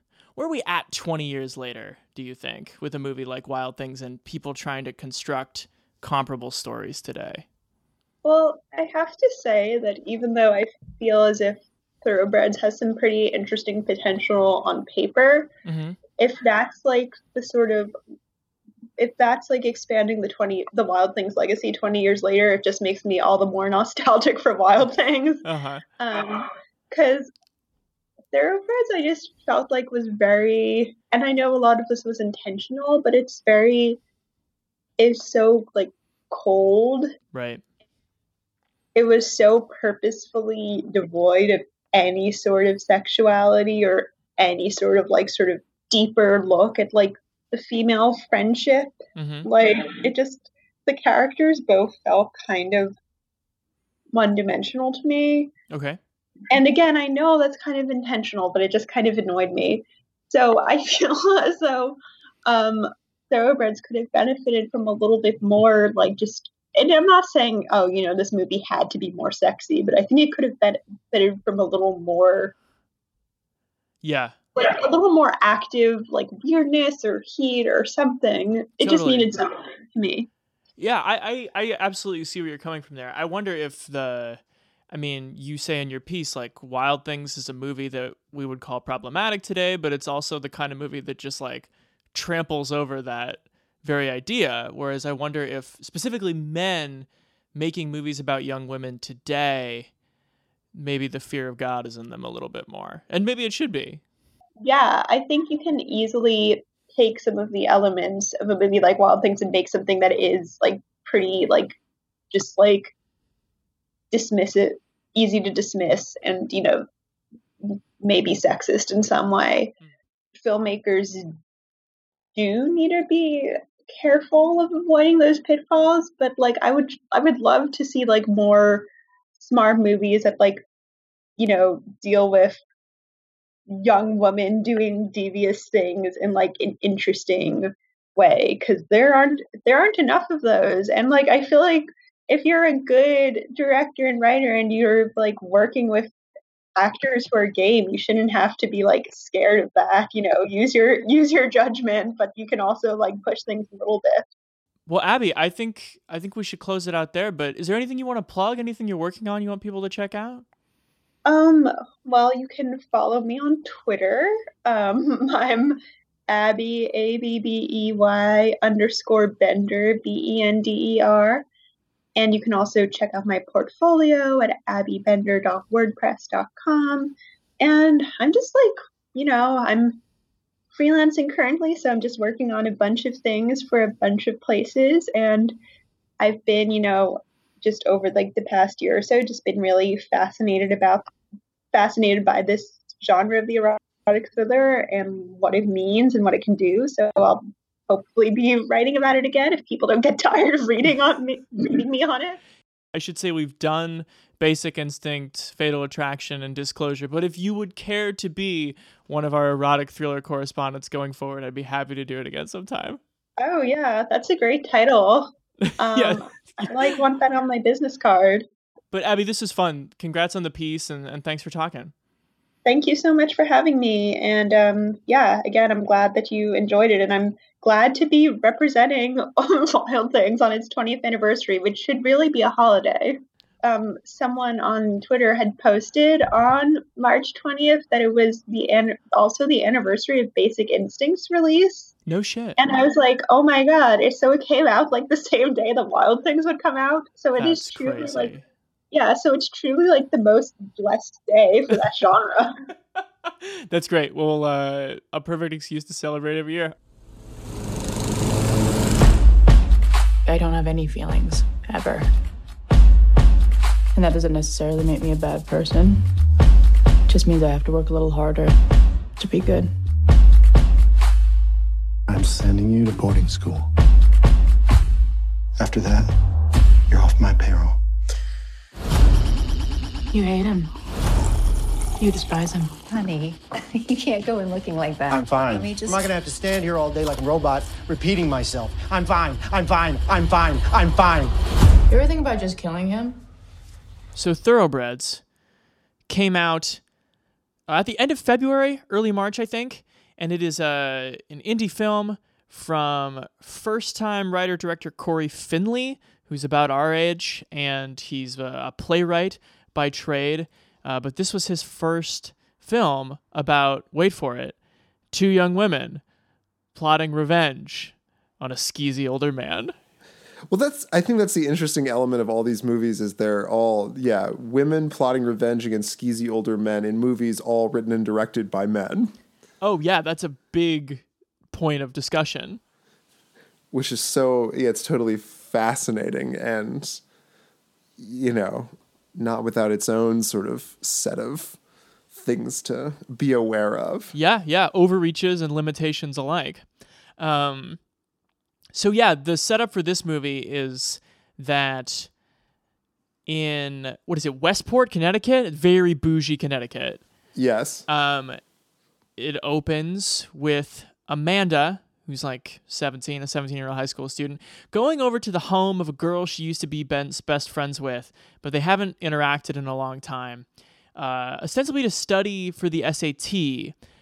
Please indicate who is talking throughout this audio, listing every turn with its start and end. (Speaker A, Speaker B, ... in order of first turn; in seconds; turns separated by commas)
Speaker A: 0.4-7.5, Speaker B: 8.2-15.5, Speaker A: 15.7-16.0, Speaker B: 16.2-17.9, Speaker B: 19.0-25.4, Speaker A: 25.4-25.8, Speaker B: 26.0-27.3, Speaker B: 28.3-34.0, Speaker B: 35.0-37.1, Speaker A: 37.3-37.6, Speaker B: 39.0-53.0, Speaker A: 49.2-49.5, Speaker B: 54.1-55.5, Speaker A: 55.7-56.0, Speaker B: 56.5-72.5, Speaker A: 74.0-74.4, Speaker B: 74.6-80.3, Speaker A: 78.8-79.3, Speaker A: 80.8-84.4, Speaker A: 84.9-99.9, Speaker A: 100.7-104.0, Speaker B: 104.6-111.8, Speaker B: 112.3-112.9, Speaker B: 114.1-116.9, Speaker B: 117.6-119.7, Speaker B: 120.4-121.3, Speaker B: 122.4-130.6, Speaker B: 131.4-132.6, Speaker B: 133.8-146.1, Speaker B: 146.8-154.3, Speaker A: 154.9-160.4, Speaker B: 161.3-171.4, Speaker B: 172.2-180.0, Speaker B: 180.7-185.6, Speaker B: 186.2-191.1, Speaker B: 191.7-202.4, Speaker A: 202.9-213.0, Speaker B: 213.4-218.4, Speaker A: 215.7-216.9, Speaker A: 218.9-221.9, Speaker B: 222.7-241.9, Speaker A: 242.1-242.6, Speaker B: 242.6-248.3, Speaker A: 247.4-248.4, Speaker B: 248.9-252.6, Speaker A: 253.5-256.8, Speaker C: 260.3-262.1, Speaker C: 263.9-266.1, Speaker C: 267.1-268.6, Speaker C: 269.2-269.7, Speaker D: 272.1-273.7, Speaker D: 275.6-276.1, Speaker D: 276.9-277.8, Speaker C: 280.1-280.7, Speaker C: 282.0-282.8, Speaker E: 282.9-286.0, Speaker F: 285.1-291.4, Speaker C: 291.9-293.2, Speaker A: 294.1-295.2, Speaker A: 296.1-296.8, Speaker A: 297.7-314.6, Speaker A: 315.1-316.0, Speaker A: 316.7-319.8, Speaker G: 320.5-329.1, Speaker A: 329.6-332.6, Speaker G: 333.7-337.0, Speaker G: 338.0-341.6, Speaker G: 342.1-344.1, Speaker A: 344.1-346.6, Speaker A: 347.2-347.8, Speaker A: 348.7-352.1, Speaker A: 353.3-357.0, Speaker G: 357.4-357.9, Speaker A: 357.9-358.4, Speaker A: 359.2-373.8